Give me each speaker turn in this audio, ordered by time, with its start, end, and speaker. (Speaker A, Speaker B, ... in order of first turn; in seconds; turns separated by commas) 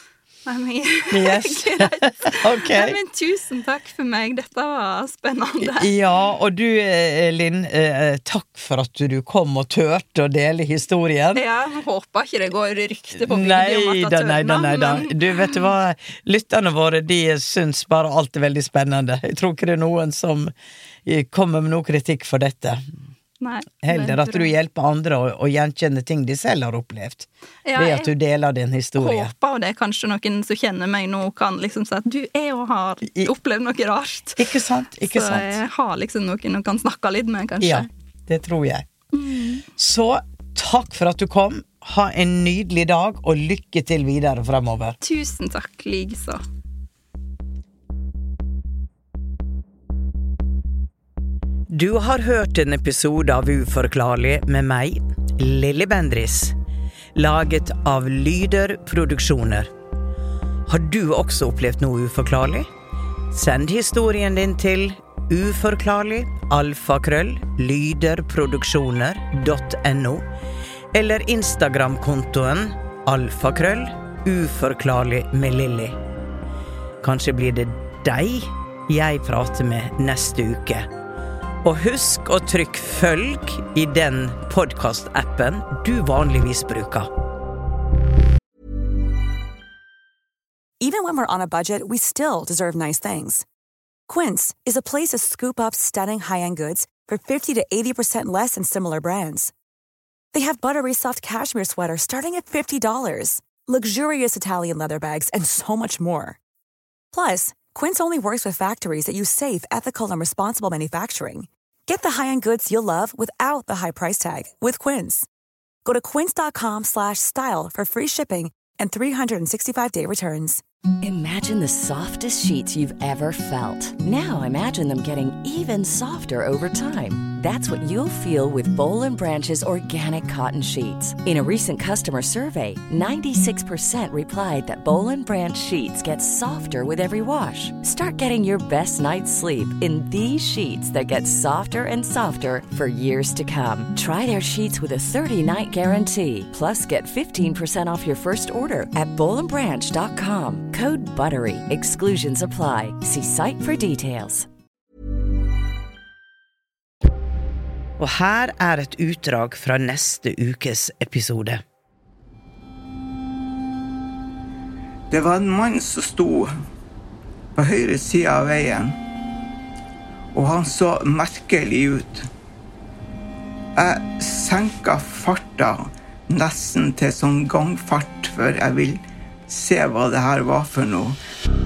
Speaker A: 0.5-5.9, Speaker B: 1.1-3.0, Speaker B: 5.6-11.4, Speaker A: 11.3-15.7, Speaker B: 13.2-20.5, Speaker B: 21.1-22.8, Speaker A: 23.4-24.5, Speaker B: 23.8-29.3, Speaker A: 27.7-28.1, Speaker A: 29.0-34.5, Speaker B: 34.4-35.6, Speaker A: 35.0-37.9, Speaker B: 37.6-38.9, Speaker A: 39.1-39.7, Speaker B: 39.8-45.0, Speaker A: 45.0-46.4, Speaker B: 51.7-56.5, Speaker B: 57.1-59.7, Speaker B: 60.7-62.7, Speaker B: 63.3-70.2, Speaker B: 70.9-76.0, Speaker B: 77.0-80.9, Speaker B: 81.6-87.1, Speaker C: 90.8-93.5, Speaker C: 94.1-99.5, Speaker C: 100.3-106.4, Speaker C: 107.1-115.3, Speaker C: 115.8-120.6, Speaker D: 121.0-154.5, Speaker B: 158.0-161.6, Speaker E: 165.1-166.5, Speaker E: 167.6-169.0, Speaker E: 170.3-172.3, Speaker E: 173.8-181.2